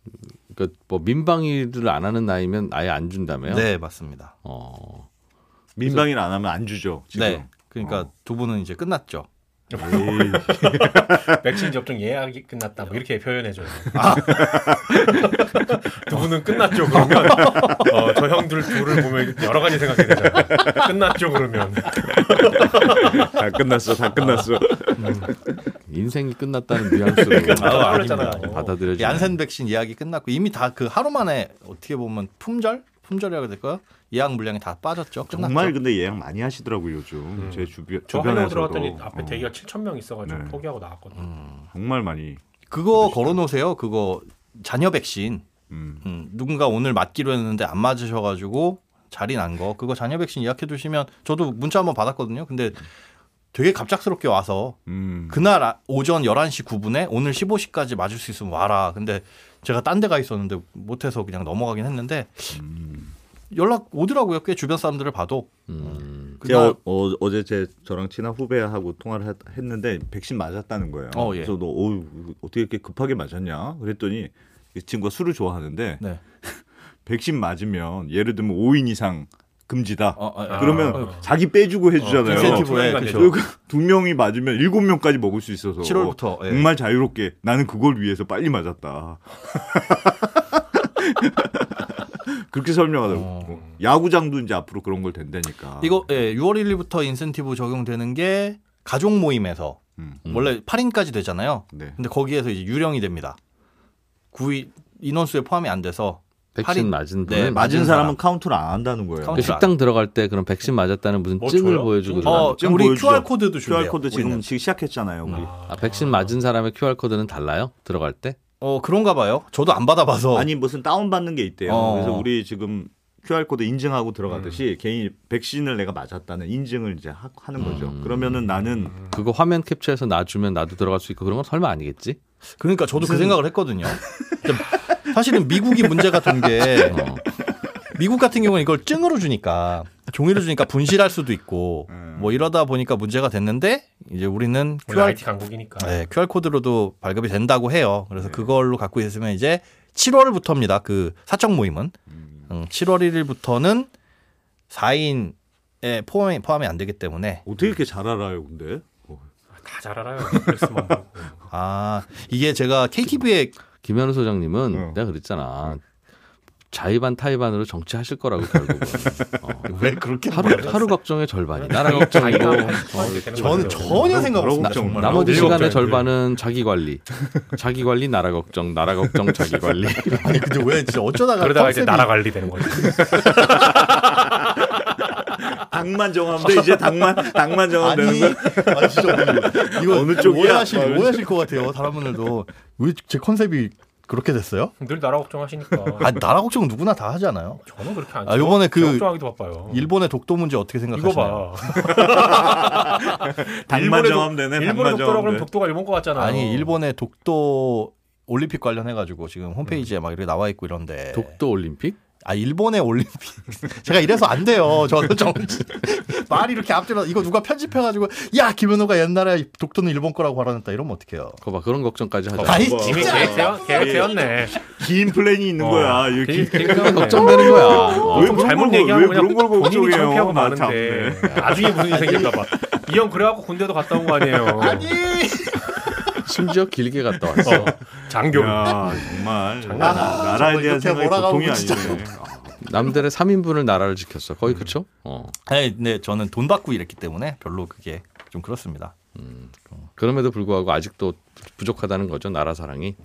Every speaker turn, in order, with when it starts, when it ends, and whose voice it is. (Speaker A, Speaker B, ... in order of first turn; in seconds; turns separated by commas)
Speaker A: 0.3-3.7, Speaker B: 3.5-4.3, Speaker A: 4.4-5.1, Speaker C: 5.8-8.1, Speaker B: 7.2-9.3, Speaker D: 9.7-23.4, Speaker C: 9.8-11.7, Speaker B: 13.9-14.5, Speaker C: 14.1-15.4, Speaker C: 16.8-17.9, Speaker B: 17.1-17.9, Speaker C: 20.1-20.9, Speaker C: 22.1-25.4, Speaker B: 25.0-25.3, Speaker A: 25.7-29.4, Speaker D: 27.3-28.9, Speaker B: 27.5-35.8, Speaker C: 35.3-39.5, Speaker D: 37.4-41.3, Speaker C: 40.2-40.6, Speaker B: 41.2-41.7, Speaker C: 41.7-42.4, Speaker B: 42.7-45.5, Speaker C: 42.9-43.4, Speaker C: 45.7-46.0, Speaker B: 46.0-52.9, Speaker B: 53.5-54.8, Speaker C: 54.9-55.5, Speaker B: 55.3-62.6, Speaker C: 62.5-63.1, Speaker B: 63.5-66.8, Speaker A: 65.7-66.4, Speaker C: 66.4-96.0, Speaker B: 71.1-71.5, Speaker B: 80.2-81.2, Speaker D: 80.5-81.3, Speaker D: 82.0-83.4, Speaker B: 82.2-83.4, Speaker B: 85.8-86.7, Speaker B: 93.1-93.6, Speaker B: 95.8-103.4, Speaker C: 100.0-100.2, Speaker C: 101.7-102.0, Speaker B: 104.3-108.2, Speaker A: 106.6-107.7, Speaker C: 107.3-109.5, Speaker B: 109.2-109.7, Speaker A: 109.3-112.6, Speaker D: 111.4-112.5, Speaker B: 112.2-114.4, Speaker C: 112.3-115.5, Speaker D: 115.3-116.4, Speaker A: 115.6-118.4, Speaker B: 118.6-120.5, Speaker C: 120.3-129.0, Speaker B: 121.7-122.3, Speaker A: 127.6-128.5, Speaker A: 129.1-132.2, Speaker B: 132.6-137.1, Speaker C: 133.0-133.4, Speaker A: 136.8-137.2, Speaker B: 137.8-145.2, Speaker C: 141.9-142.4, Speaker D: 144.9-146.0, Speaker B: 145.8-151.9, Speaker C: 148.2-148.5, Speaker C: 152.2-152.4, Speaker B: 152.5-153.9, Speaker B: 154.7-157.4, Speaker C: 157.5-159.3, Speaker D: 159.6-161.4, Speaker C: 160.3-160.6, Speaker B: 161.5-163.6, Speaker A: 163.8-165.8, Speaker C: 164.7-165.0, Speaker A: 166.7-169.7, Speaker C: 168.5-169.6, Speaker B: 169.6-170.9, Speaker A: 170.3-174.0, Speaker B: 171.6-176.0, Speaker D: 171.7-174.2, Speaker C: 173.4-175.9, Speaker A: 174.6-180.4, Speaker D: 175.0-176.1, Speaker C: 179.1-179.8, Speaker B: 180.2-183.2, Speaker D: 181.4-183.7, Speaker C: 182.8-191.7, Speaker B: 187.7-194.7, Speaker D: 194.8-196.2, Speaker B: 196.0-197.6, Speaker D: 197.6-199.9, Speaker B: 198.2-199.1, Speaker B: 199.7-201.8, Speaker D: 200.9-206.8, Speaker C: 201.7-205.5, Speaker B: 206.2-211.4, Speaker A: 211.1-212.0, Speaker B: 212.2-221.4, Speaker A: 221.4-223.1, Speaker B: 222.4-223.8, Speaker C: 222.4-231.8, Speaker D: 222.5-224.6, Speaker D: 225.6-235.0, Speaker A: 226.6-228.4, Speaker B: 227.4-228.0, Speaker B: 231.3-232.5, Speaker B: 234.5-236.3, Speaker A: 236.2-237.8, Speaker D: 237.4-240.4, Speaker C: 238.0-242.9, Speaker B: 239.8-242.1, Speaker A: 242.6-245.3, Speaker B: 245.5-248.9, Speaker A: 249.2-253.0